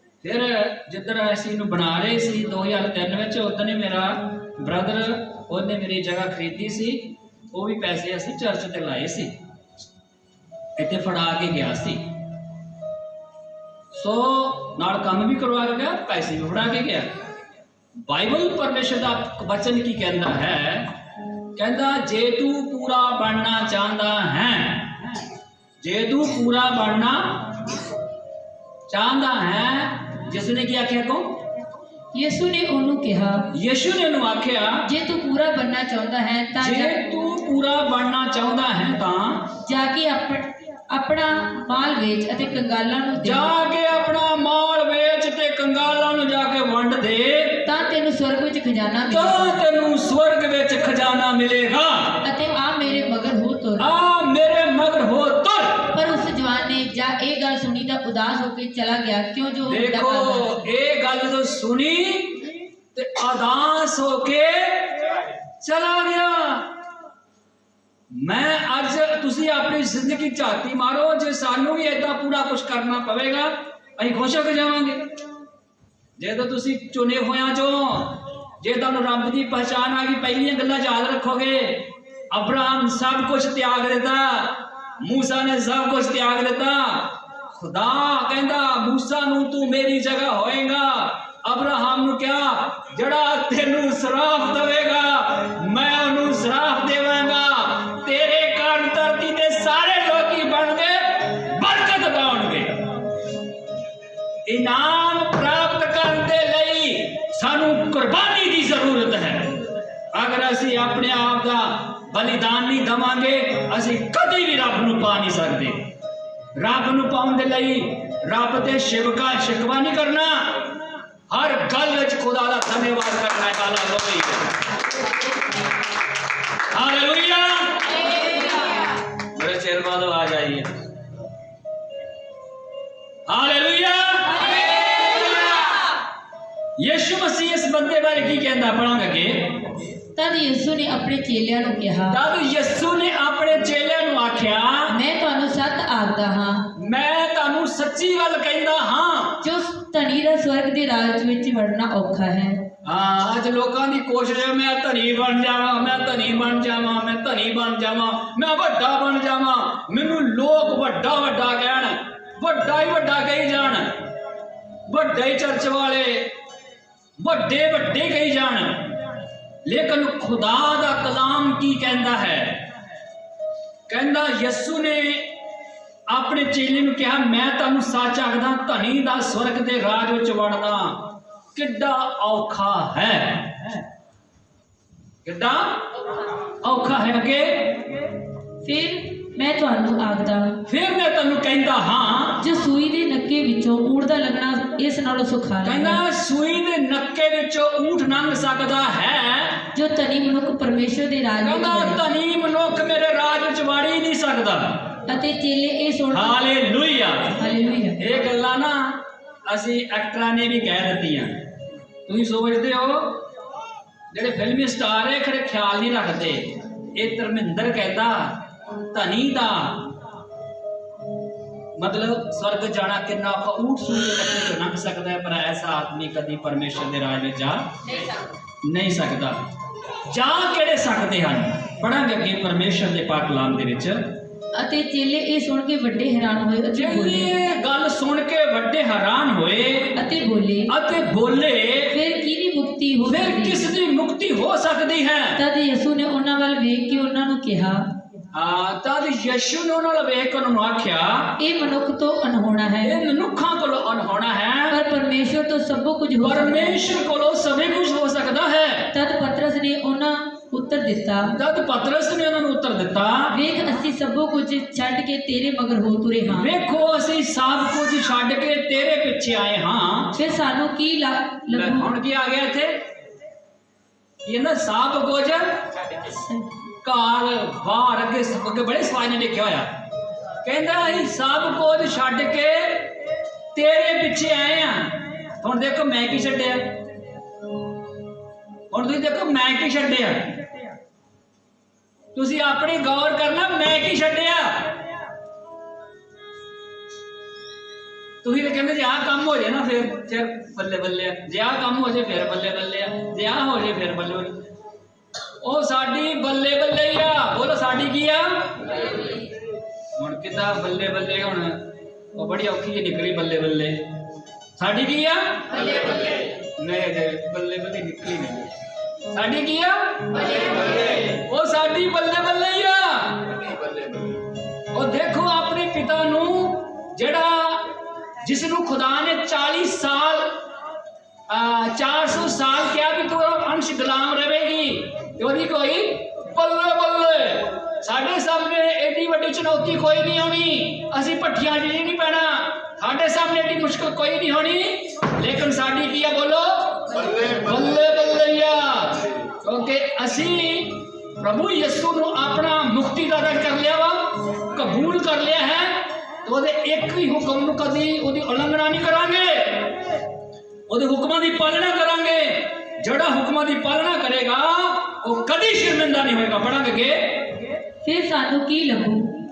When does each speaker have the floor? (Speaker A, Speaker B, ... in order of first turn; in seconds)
Speaker A: 0.2-9.4, 10.8-12.1, 13.9-17.1, 18.1-20.9, 21.6-25.2, 25.8-27.7, 28.9-31.3, 33.5-34.9, 36.6-39.5, 43.2-47.7, 49.1-52.2, 53.8-56.0, 59.7-66.7, 68.1-75.1, 76.2-102.9, 104.5-109.6, 110.1-115.9, 116.6-120.7, 121.3-124.6, 126.7-128.1, 129.2-130.7, 133.3-135.2, 136.8-139.7, 142.1-145.0, 146.8-149.4, 152.8-164.0, 164.9-166.3, 167.2-169.0, 169.7-172.6, 173.9-175.3, 176.1-181.0, 181.6-183.8, 185.2-185.8, 186.6-187.9, 190.7-192.4, 195.6-199.7, 201.4-205.0, 206.1-207.4, 208.0-211.5, 212.1-213.2, 214.1-219.9, 221.8-227.8, 228.6-229.4, 229.9-234.1, 236.7-240.0, 240.7-242.0, 243.1-245.4, 248.3-251.4, 252.8-254.8, 256.2-258.9, 261.3-263.4, 266.3-270.2, 271.5-272.8, 274.2-275.7, 276.8-279.7, 280.4-282.9, 283.5-286.8, 288.7-290.4, 292.1-294.8, 298.2-304.4, 305.4-309.2, 310.0-313.8, 314.6-318.6, 319.1-323.4, 324.7-330.4, 331.3-360.0, 360.7-367.3
Speaker B: 32.1-33.5, 34.8-37.2, 39.6-43.5, 47.6-49.5, 52.2-53.9, 55.9-60.6, 134.5-134.8, 140.2-142.2, 144.9-146.7, 149.4-152.6, 188.6-190.6, 192.4-196.0, 199.7-202.0, 205.1-206.4, 207.4-208.1, 227.9-228.2, 234.5-237.3, 239.9-240.7, 241.9-243.7, 245.4-247.9, 251.4-253.0, 254.7-256.8, 258.9-261.4, 263.3-266.5, 270.1-271.9, 276.1-276.5, 367.8-369.2